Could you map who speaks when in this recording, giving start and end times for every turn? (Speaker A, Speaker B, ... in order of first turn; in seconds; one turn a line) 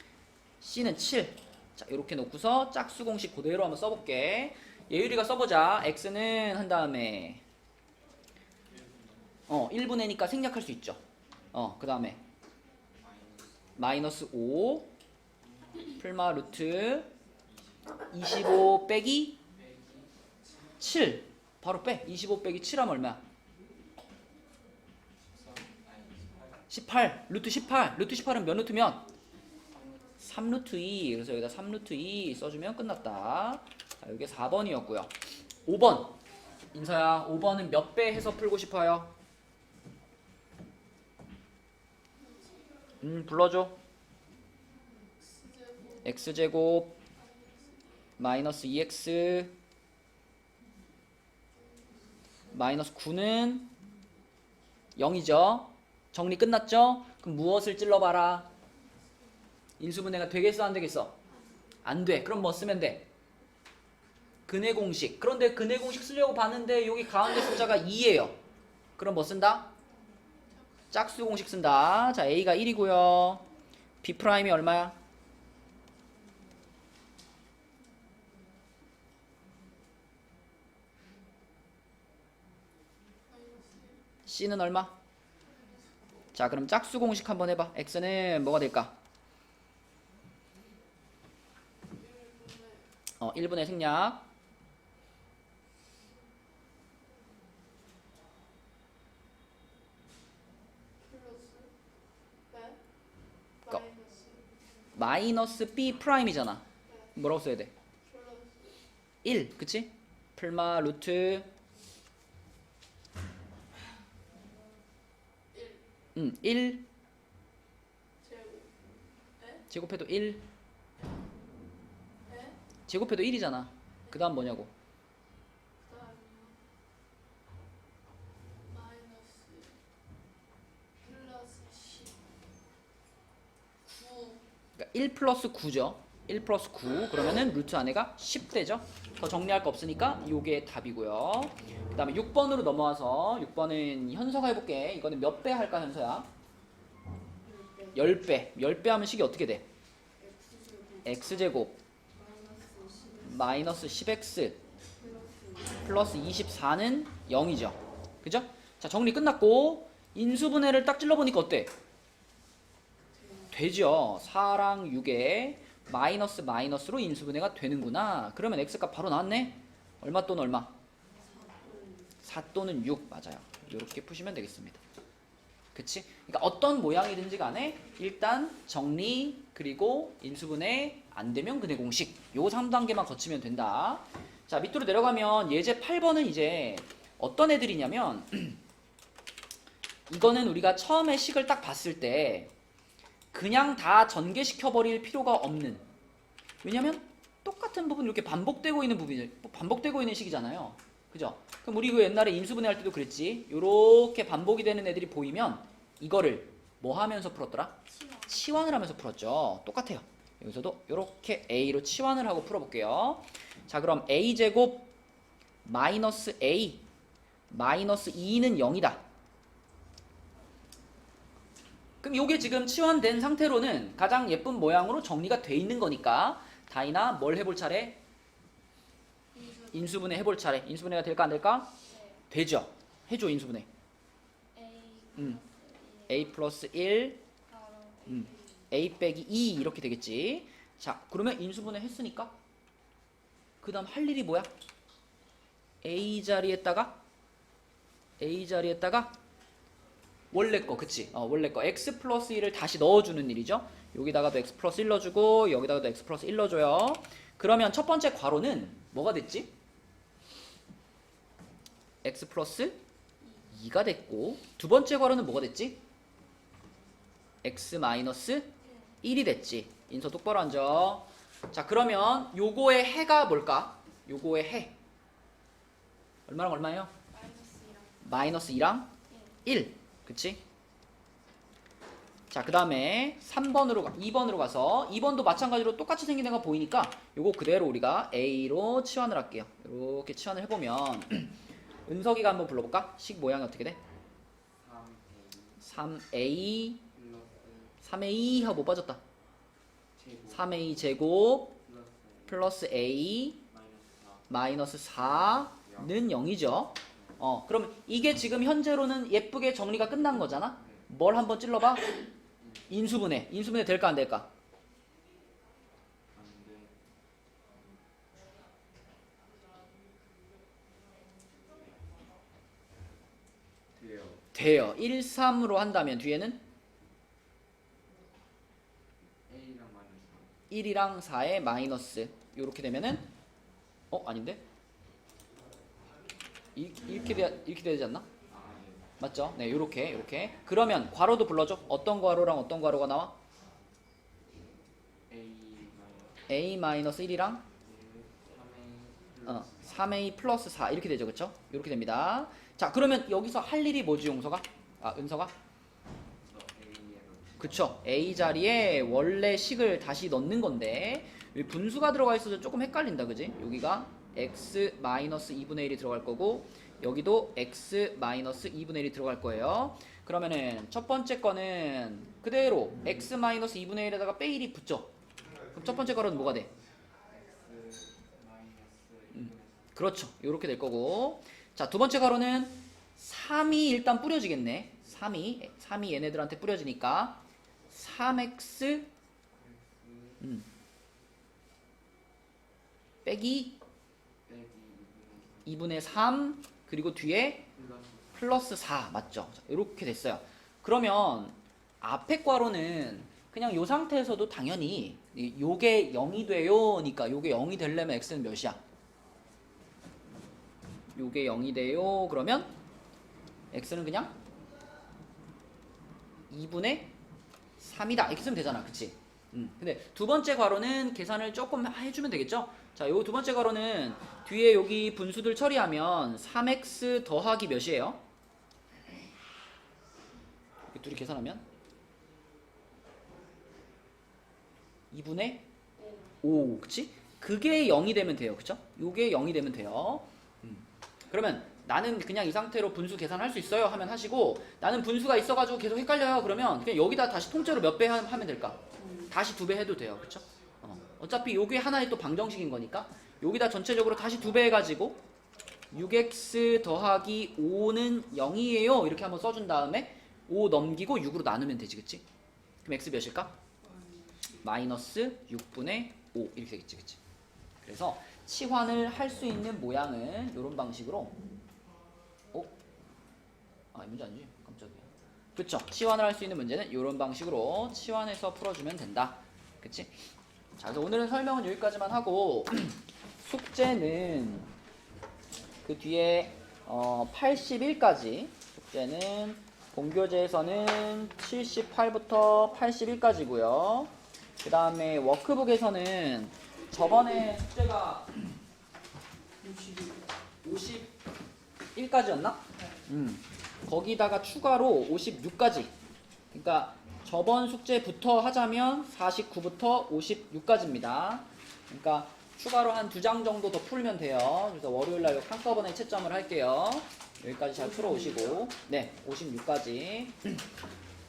Speaker A: 0.6-7.4
Speaker B: 8.7-9.4
Speaker A: 9.5-11.0
Speaker A: 11.5-12.2
Speaker B: 13.0-14.0
Speaker A: 13.8-14.9
Speaker B: 15.4-16.0
Speaker A: 16.0-17.1
Speaker B: 17.5-18.1
Speaker A: 18.1-19.4
Speaker B: 19.5-20.5
Speaker A: 20.8-23.2
Speaker B: 25.2-26.7
Speaker A: 26.7-29.1
Speaker A: 30.2-35.1
Speaker A: 35.7-36.2
Speaker A: 36.7-39.1
Speaker C: 42.2-42.7
Speaker A: 43.0-43.8
Speaker C: 45.1-46.5
Speaker A: 46.0-47.0
Speaker C: 47.1-48.3
Speaker A: 48.2-49.5
Speaker C: 51.5-52.5
Speaker A: 52.5-53.7
Speaker A: 55.0-58.5
Speaker A: 59.8-61.1
Speaker C: 61.3-61.6
Speaker A: 61.8-63.1
Speaker A: 64.5-68.4
Speaker A: 69.0-69.7
Speaker C: 70.5-71.3
Speaker A: 70.9-73.5
Speaker A: 74.0-75.0
Speaker C: 83.3-84.0
Speaker A: 84.3-85.0
Speaker C: 85.4-86.3
Speaker A: 86.3-89.0
Speaker C: 91.8-92.9
Speaker A: 93.2-94.3
Speaker C: 101.0-101.7
Speaker C: 102.5-102.8
Speaker C: 103.6-104.6
Speaker A: 105.0-106.6
Speaker C: 106.9-107.2
Speaker A: 107.2-107.7
Speaker C: 108.0-108.8
Speaker A: 109.2-111.5
Speaker C: 115.5-115.8
Speaker A: 116.2-116.8
Speaker C: 118.2-118.7
Speaker C: 119.4-119.7
Speaker A: 119.7-120.5
Speaker C: 122.3-122.6
Speaker A: 122.9-124.7
Speaker C: 124.0-124.5
Speaker C: 125.8-126.6
Speaker C: 128.7-129.8
Speaker C: 131.0-132.2
Speaker C: 133.9-134.4
Speaker A: 134.8-146.3
Speaker C: 147.4-147.9
Speaker A: 147.9-149.7
Speaker C: 150.2-151.3
Speaker A: 151.0-151.8
Speaker C: 152.1-153.6
Speaker A: 153.2-154.6
Speaker C: 155.0-155.8
Speaker A: 155.7-161.7
Speaker D: 163.2-163.5
Speaker A: 163.5-170.7
Speaker C: 171.7-172.0
Speaker A: 172.2-174.8
Speaker A: 175.8-188.6
Speaker A: 190.1-192.5
Speaker A: 193.3-195.8
Speaker A: 196.6-214.9
Speaker C: 207.9-208.3
Speaker A: 215.6-216.8
Speaker A: 217.5-219.0
Speaker A: 222.0-228.0
Speaker C: 229.3-230.1
Speaker A: 229.7-231.7
Speaker C: 231.8-232.2
Speaker A: 232.3-233.7
Speaker C: 234.6-236.4
Speaker A: 235.2-235.4
Speaker A: 236.1-237.2
Speaker C: 237.5-238.4
Speaker A: 238.1-242.4
Speaker A: 243.6-244.5
Speaker A: 245.8-247.0
Speaker A: 248.2-249.2
Speaker A: 250.3-259.5
Speaker A: 262.0-262.8
Speaker A: 263.5-265.8
Speaker A: 267.4-274.8
Speaker C: 268.6-268.9
Speaker A: 276.3-276.9
Speaker C: 277.1-278.0
Speaker A: 278.0-278.9
Speaker C: 279.1-279.4
Speaker A: 279.4-280.4
Speaker A: 282.3-293.8
Speaker B: 294.5-295.7
Speaker A: 295.6-296.8
Speaker B: 296.9-297.8
Speaker A: 297.8-299.0
Speaker B: 299.9-300.8
Speaker A: 300.3-301.6
Speaker B: 301.6-302.5
Speaker A: 302.3-303.4
Speaker B: 303.5-304.4
Speaker A: 304.3-312.0
Speaker B: 305.0-306.0
Speaker B: 306.9-307.2
Speaker B: 310.6-310.9
Speaker B: 312.4-312.8
Speaker A: 312.7-314.3
Speaker B: 316.1-316.8
Speaker B: 323.8-324.3
Speaker A: 324.3-326.4
Speaker B: 329.3-330.4
Speaker A: 330.5-333.1
Speaker A: 333.9-334.4
Speaker A: 336.6-338.1
Speaker B: 338.3-338.9
Speaker A: 339.0-343.2
Speaker B: 345.1-346.2
Speaker A: 346.3-347.4
Speaker B: 347.6-349.8
Speaker A: 349.2-355.3
Speaker B: 356.2-357.7
Speaker A: 357.4-374.9
Speaker A: 375.5-376.5
Speaker B: 375.6-376.4
Speaker B: 377.1-379.8
Speaker A: 379.1-388.9
Speaker B: 389.3-390.2
Speaker A: 390.2-390.5
Speaker A: 393.1-393.6
Speaker B: 394.3-395.6
Speaker A: 395.5-397.5
Speaker B: 397.5-398.4
Speaker A: 398.2-408.6
Speaker A: 410.9-412.5
Speaker A: 413.5-414.2
Speaker A: 416.3-416.9
Speaker A: 417.6-428.0
Speaker A: 430.7-431.4
Speaker A: 434.9-435.5
Speaker A: 436.2-448.6
Speaker D: 448.7-449.1
Speaker A: 449.1-455.0
Speaker A: 455.7-462.0
Speaker A: 462.6-463.3
Speaker D: 463.6-464.6
Speaker A: 464.4-467.0
Speaker A: 467.6-471.1
Speaker A: 473.7-480.0
Speaker A: 480.6-484.5
Speaker A: 485.6-498.3
Speaker D: 499.4-500.1
Speaker A: 500.4-500.9
Speaker A: 501.8-505.7
Speaker A: 506.3-520.4
Speaker D: 517.5-518.5